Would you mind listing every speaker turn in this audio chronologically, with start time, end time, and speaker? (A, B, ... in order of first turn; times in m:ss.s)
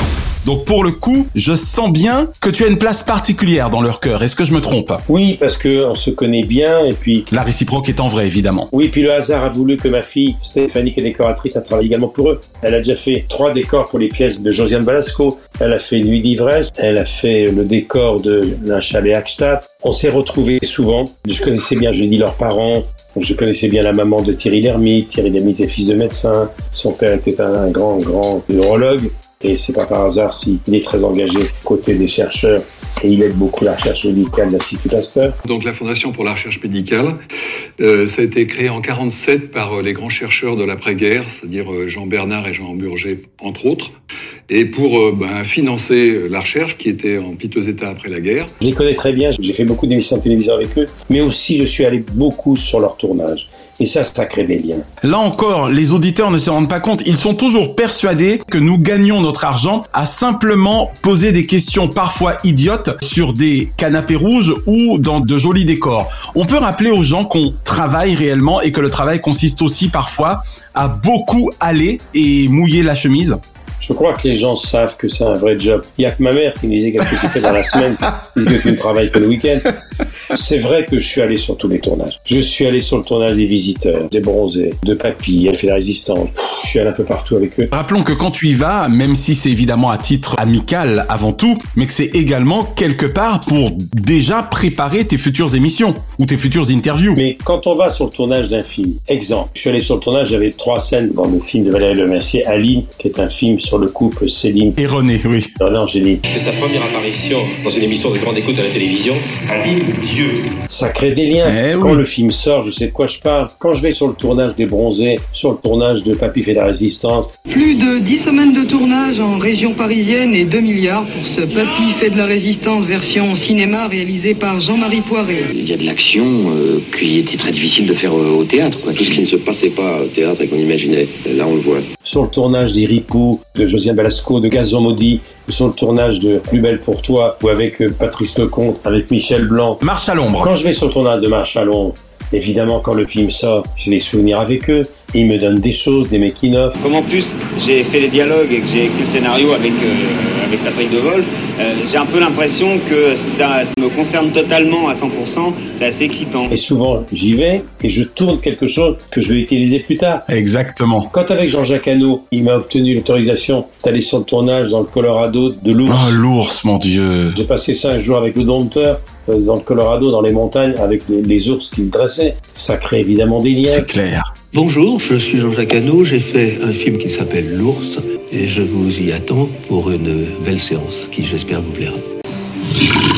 0:00.4-0:05.0 A
0:05.1-0:07.3 B
0:07.3-0:08.7 A
0:08.7-0:35.4 B
0:35.5-0:37.2 C
0:37.8-0:43.9 C
0:44.5-0:48.5 C
0:48.6-0:54.9 B
0:55.0-1:13.4 A
1:13.8-1:19.6 B
1:20.3-1:27.7 B
1:27.7-1:37.2 A
1:37.2-1:44.8 B
1:44.8-1:45.5 A
1:45.6-1:57.3 B
1:51.4-1:52.0 A
1:57.5-2:05.5 D
2:05.6-2:11.8 E
2:12.0-2:19.8 B
2:19.8-2:20.5 A
2:20.4-2:26.8 B
2:26.8-2:36.5 F
2:36.5-2:40.2 B
2:40.3-2:41.1 A
2:41.1-2:46.2 B
2:45.9-2:47.4 A
2:47.3-2:53.9 B
2:53.7-2:54.3 A
2:54.5-3:02.0 G